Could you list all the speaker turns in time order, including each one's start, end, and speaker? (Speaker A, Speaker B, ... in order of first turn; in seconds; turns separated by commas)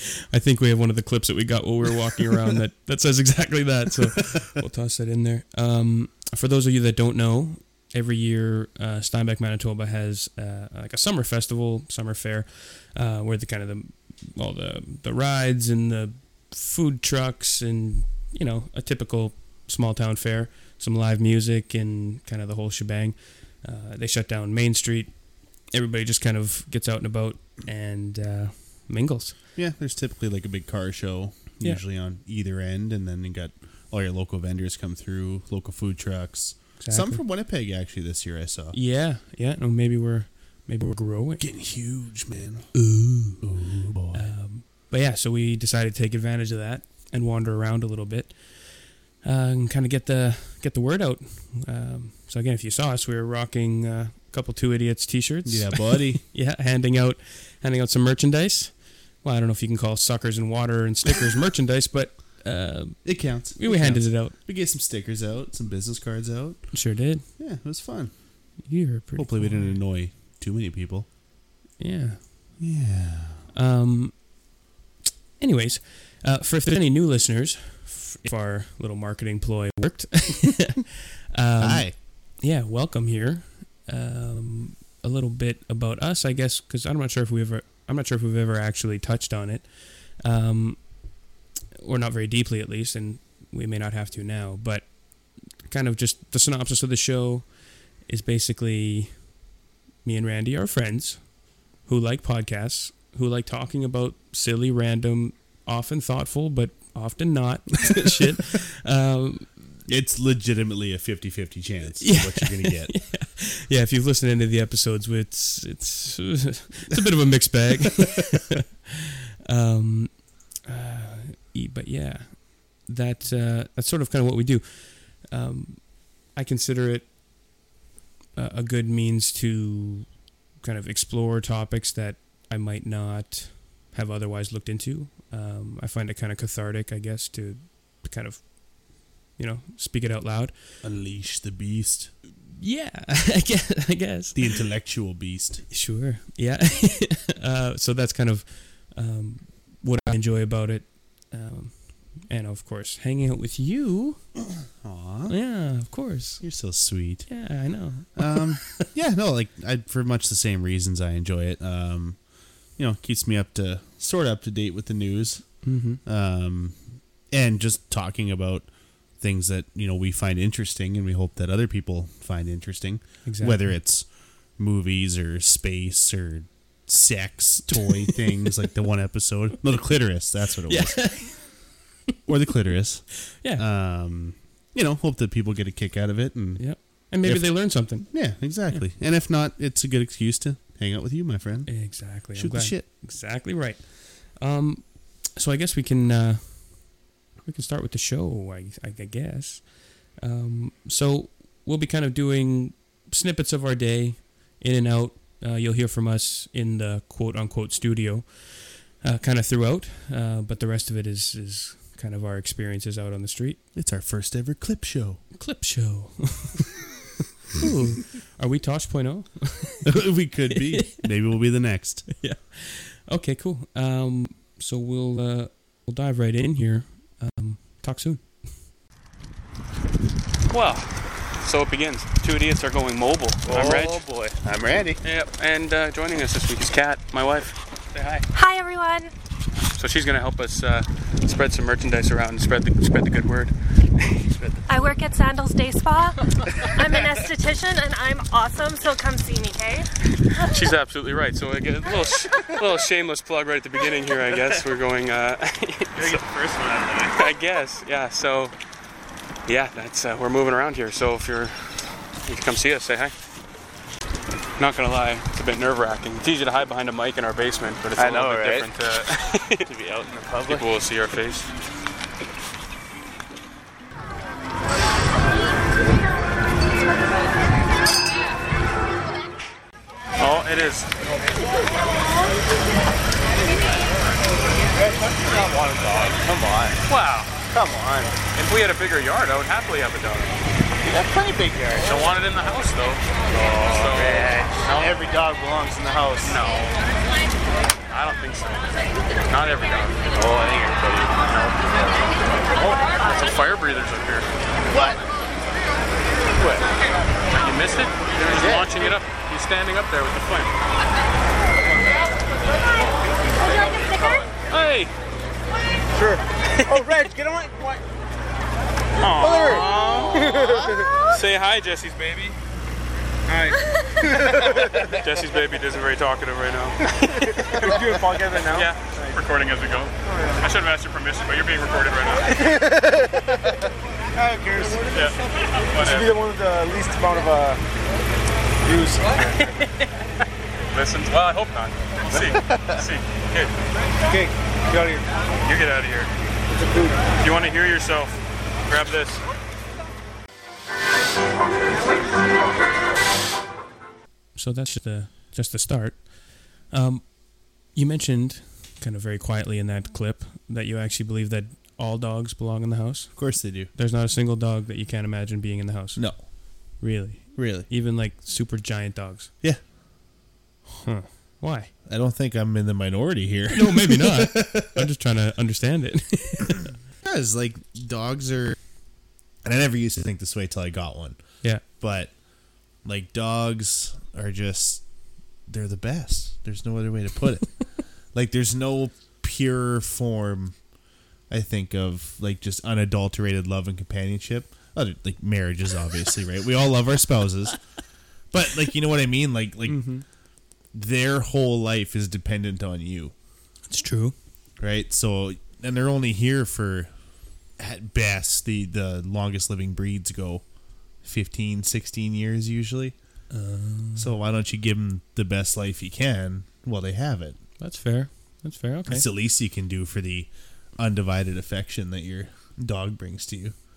Speaker A: 0.3-29.4, Speaker B: 29.5-38.8, Speaker A: 36.8-37.2, Speaker A: 38.7-41.5, Speaker B: 41.4-44.3, Speaker A: 44.1-64.3, Speaker B: 55.4-56.2, Speaker B: 63.0-68.1, Speaker A: 66.7-67.2, Speaker A: 68.6-69.8, Speaker B: 69.2-71.1, Speaker A: 71.8-72.6, Speaker B: 72.6-73.4, Speaker A: 73.5-74.5, Speaker A: 75.4-91.1, Speaker B: 81.6-81.9, Speaker A: 91.8-99.4, Speaker A: 100.0-109.6, Speaker B: 109.8-113.0, Speaker A: 112.0-127.1, Speaker A: 128.3-140.7, Speaker B: 140.8-142.1, Speaker A: 142.5-144.5, Speaker B: 144.3-145.7, Speaker A: 145.7-154.3, Speaker B: 154.8-155.4, Speaker A: 155.3-158.9, Speaker B: 156.4-181.4, Speaker A: 165.6-166.0, Speaker A: 173.2-173.8, Speaker A: 177.7-178.3, Speaker A: 180.7-181.6, Speaker B: 182.2-192.9, Speaker A: 183.3-183.7, Speaker A: 186.6-188.9, Speaker A: 191.7-213.6, Speaker B: 213.7-215.2, Speaker A: 215.3-216.7, Speaker A: 217.5-219.9, Speaker B: 219.8-222.1, Speaker A: 222.1-228.3, Speaker C: 230.5-230.9, Speaker C: 231.4-234.0, Speaker D: 233.4-234.4, Speaker B: 234.4-235.0, Speaker C: 235.0-238.2, Speaker E: 238.3-239.1, Speaker C: 239.7-243.5, Speaker E: 244.7-249.9, Speaker C: 250.3-256.2, Speaker D: 255.9-257.1, Speaker C: 257.1-258.5, Speaker C: 259.5-261.5, Speaker C: 262.2-263.1, Speaker C: 264.6-269.6, Speaker D: 267.9-268.7, Speaker D: 269.6-270.6, Speaker C: 270.4-271.5, Speaker C: 280.2-280.9, Speaker D: 284.7-286.8, Speaker C: 286.9-287.4, Speaker D: 287.5-288.1, Speaker C: 288.3-290.4, Speaker D: 290.8-291.9, Speaker C: 291.9-294.9, Speaker D: 293.3-296.4, Speaker C: 296.2-296.8, Speaker C: 297.9-300.1, Speaker D: 300.1-301.5, Speaker C: 302.5-304.3, Speaker D: 304.7-305.0, Speaker C: 307.3-310.5, Speaker D: 308.3-308.9, Speaker E: 313.4-314.3, Speaker D: 313.5-314.0, Speaker C: 314.4-314.9, Speaker D: 316.0-317.7, Speaker C: 319.0-320.4, Speaker D: 319.1-320.9, Speaker C: 321.1-322.4, Speaker D: 324.0-324.9, Speaker C: 324.9-332.6, Speaker D: 327.2-329.0, Speaker D: 330.1-330.4, Speaker D: 332.4-333.4, Speaker D: 334.1-335.2, Speaker C: 334.9-336.2, Speaker D: 335.8-337.6, Speaker D: 338.7-339.3, Speaker C: 339.4-339.7, Speaker C: 340.7-343.5, Speaker D: 342.1-342.7, Speaker C: 345.4-346.1, Speaker C: 347.2-348.1, Speaker C: 348.7-349.2, Speaker A: 354.3-369.3, Speaker B: 363.1-363.7, Speaker B: 365.9-366.2, Speaker B: 367.3-367.7, Speaker A: 370.7-371.7, Speaker B: 371.9-374.9, Speaker A: 373.5-376.7, Speaker B: 377.0-378.6, Speaker B: 379.4-382.2, Speaker B: 382.8-384.8, Speaker B: 385.5-390.6, Speaker B: 391.3-397.6, Speaker B: 398.3-399.9, Speaker A: 399.6-400.0, Speaker B: 400.7-403.1, Speaker A: 403.7-404.1, Speaker B: 404.6-406.9, Speaker B: 407.6-410.4, Speaker B: 411.0-412.9, Speaker A: 413.3-414.1, Speaker B: 413.9-417.4, Speaker A: 417.6-419.1, Speaker B: 418.9-423.5